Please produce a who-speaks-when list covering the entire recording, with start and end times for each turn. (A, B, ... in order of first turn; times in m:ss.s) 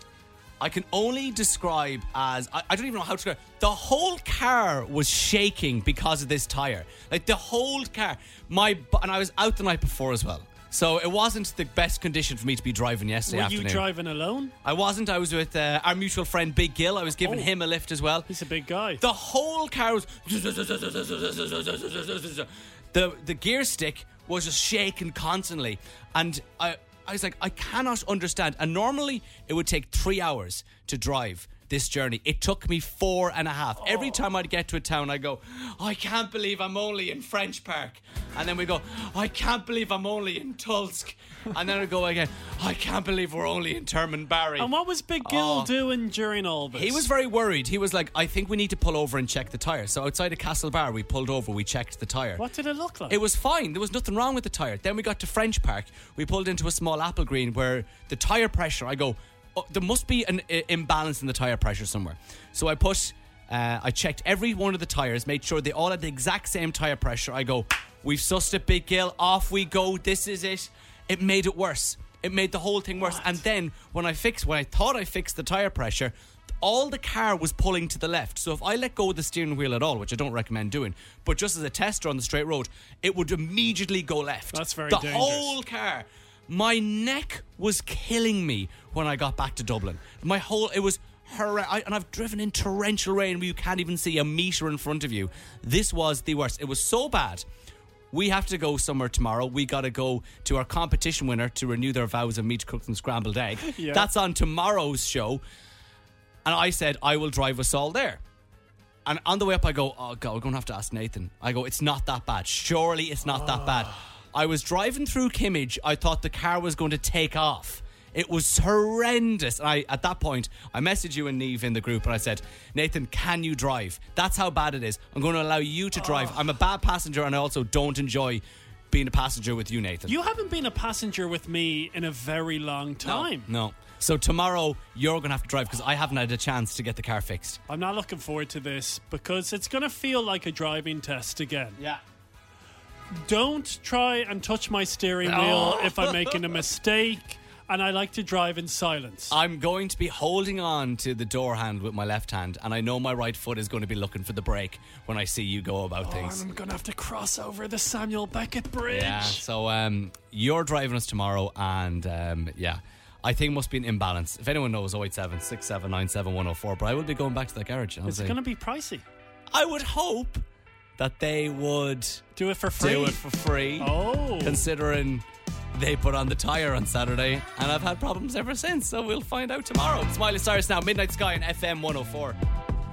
0:00.6-0:13.8 A
0:13.3-0:14.5 B
0:14.6-0:18.3 A
0:17.2-0:17.5 B
0:18.3-0:19.0 B
0:19.0-0:44.7 A
0:33.8-0:34.2 B
0:44.6-0:47.1 B
0:45.2-0:45.7 A
0:46.7-0:52.4 A
0:52.4-0:53.2 B
0:53.1-1:37.4 A
1:24.5-1:25.5 B
1:38.1-1:45.4 A
1:43.6-1:44.1 B
1:46.4-1:48.2 A
1:49.0-2:10.1 A
1:53.3-1:54.0 B
2:06.0-2:06.4 B
2:10.1-2:13.5 B
2:13.0-2:17.6 A
2:17.7-2:21.8 B
2:23.2-2:29.3 B
2:25.2-2:26.5 A
2:29.3-2:36.4 A
2:36.0-2:39.4 B
2:38.9-2:48.4 A
2:48.0-2:49.0 B
2:49.5-2:50.4 A
2:51.0-2:52.2 A
2:52.4-2:53.2 B
2:52.8-2:53.9 A
2:53.8-2:54.6 B
2:54.4-3:02.4 A